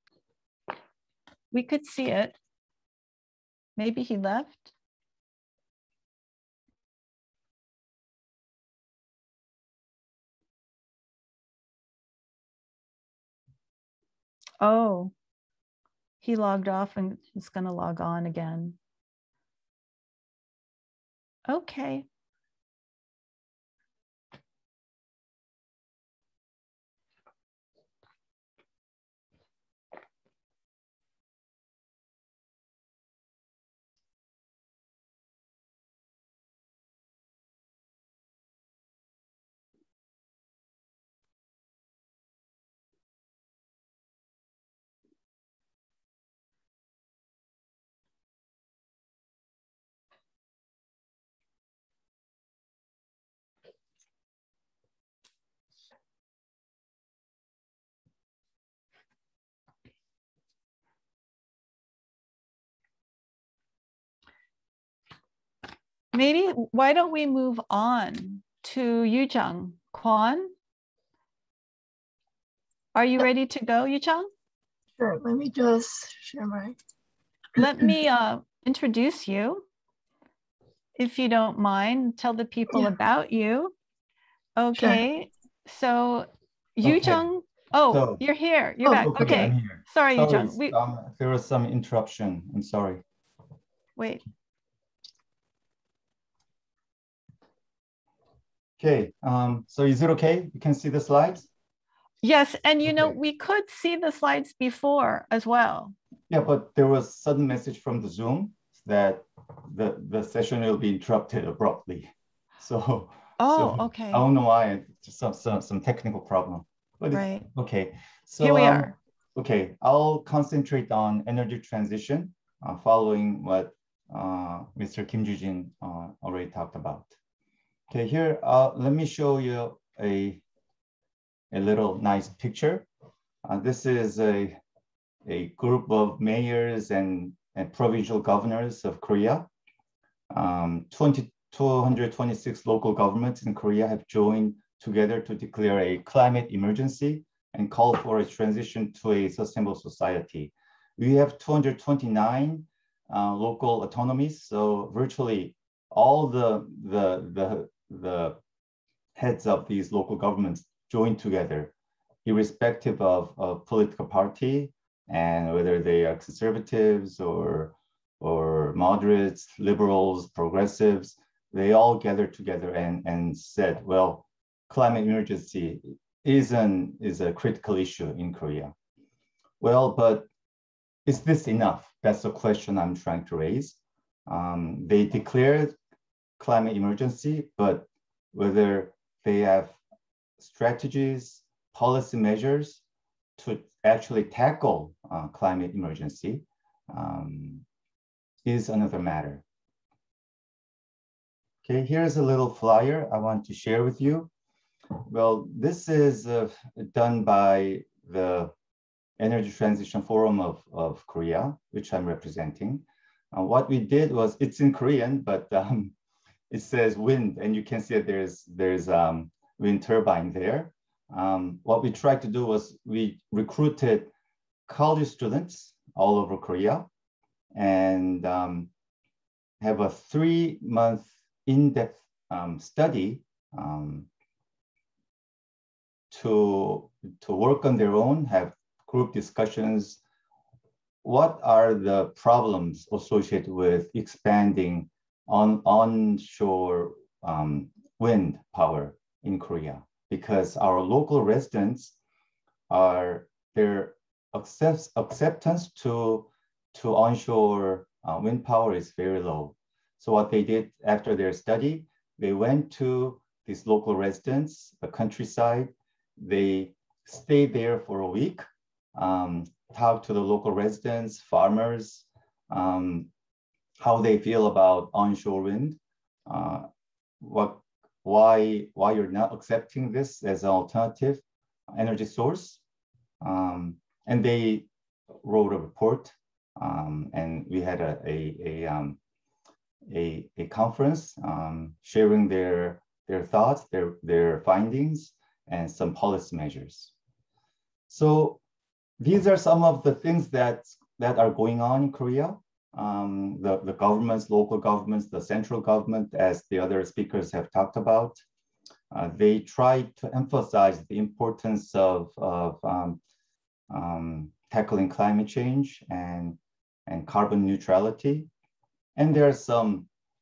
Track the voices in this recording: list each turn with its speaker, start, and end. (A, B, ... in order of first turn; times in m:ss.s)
0:01.5-0:02.4 A
0:03.8-0:04.7 A
0:14.6-0:15.1 A
0:16.2-0:18.8 A
0:21.5-0:22.1 A
1:06.1-1:10.5 A
1:13.0-1:14.3 A
1:15.0-1:16.7 B
1:17.6-1:19.7 A
1:17.6-1:17.9 B
1:21.0-1:23.8 A
1:24.6-1:30.8 A
1:26.8-1:27.2 C
1:27.9-1:28.2 C
1:28.9-1:33.0 C
1:34.0-1:34.2 A
1:38.8-1:41.5 C
1:42.2-1:46.0 A
1:46.3-2:07.1 C
1:53.4-1:54.3 A
1:57.1-1:57.5 A
1:58.4-1:59.0 A
2:07.9-2:10.4 C
2:11.5-2:12.9 C
2:13.4-2:14.6 C
2:15.2-2:19.5 C
2:20.3-2:38.4 C
2:39.2-2:41.7 C
2:42.2-2:58.7 C
2:59.6-3:00.3 C
3:01.1-3:05.8 C
3:06.4-3:09.8 C
3:10.4-3:12.8 C
3:13.4-3:17.6 C
3:18.4-3:19.4 C
3:21.6-3:24.3 C
3:25.1-3:28.5 C
3:29.2-3:35.9 C
3:36.5-3:44.1 C
3:44.7-3:46.9 C
3:47.5-3:48.7 C
3:49.6-3:54.1 C
3:56.1-4:00.0 C
4:01.0-4:11.9 C
4:12.7-4:33.1 C
4:33.8-4:36.7 C
4:37.2-4:42.6 C
4:43.2-4:44.7 C
4:45.2-4:49.0 C
4:49.9-4:56.9 C
4:57.9-4:58.4 C
4:59.0-5:08.2 C
5:08.9-5:13.0 C
5:13.7-5:18.3 C
5:19.0-5:19.9 C